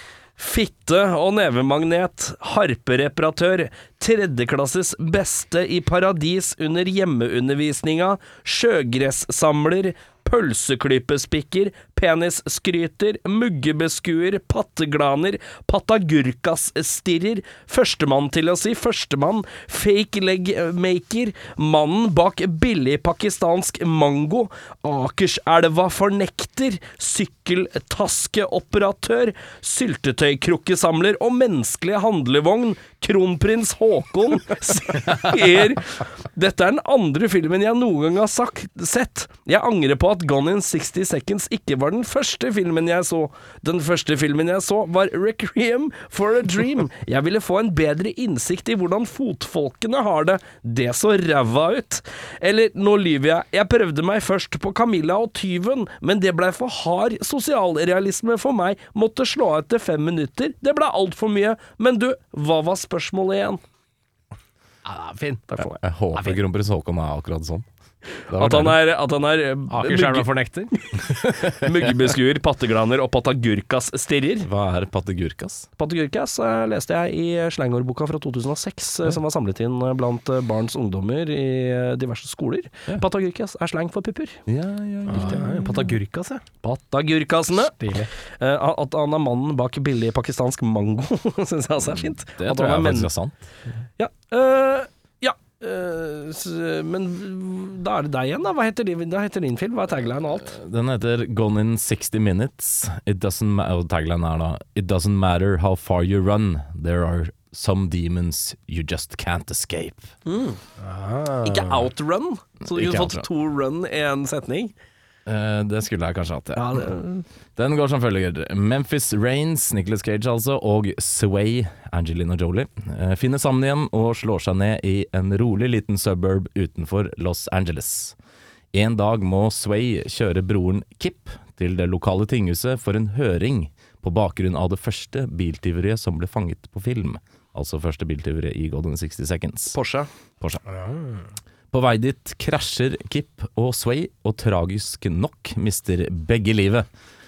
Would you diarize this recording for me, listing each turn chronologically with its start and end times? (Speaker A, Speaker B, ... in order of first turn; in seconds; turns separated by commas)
Speaker A: 0.4-63.6, Speaker B: 64.8-65.5, Speaker A: 65.5-65.8, Speaker C: 65.8-67.7, Speaker B: 66.2-66.4, Speaker C: 68.3-68.8, Speaker A: 68.3-74.5, Speaker B: 69.7-70.7, Speaker C: 74.4-75.7, Speaker A: 75.8-84.4, Speaker C: 84.5-85.9, Speaker B: 85.1-86.5, Speaker A: 86.6-93.1, Speaker B: 87.8-88.1, Speaker C: 92.3-93.4, Speaker A: 94.0-100.5, Speaker C: 100.4-110.1, Speaker A: 110.3-110.6, Speaker B: 110.8-111.9, Speaker A: 111.5-114.7, Speaker C: 112.6-113.3, Speaker C: 115.3-116.9, Speaker A: 116.5-117.2, Speaker C: 117.6-128.2, Speaker C: 128.7-139.8, Speaker A: 139.7-140.1, Speaker C: 140.4-140.7, Speaker B: 140.7-141.2, Speaker C: 141.7-146.9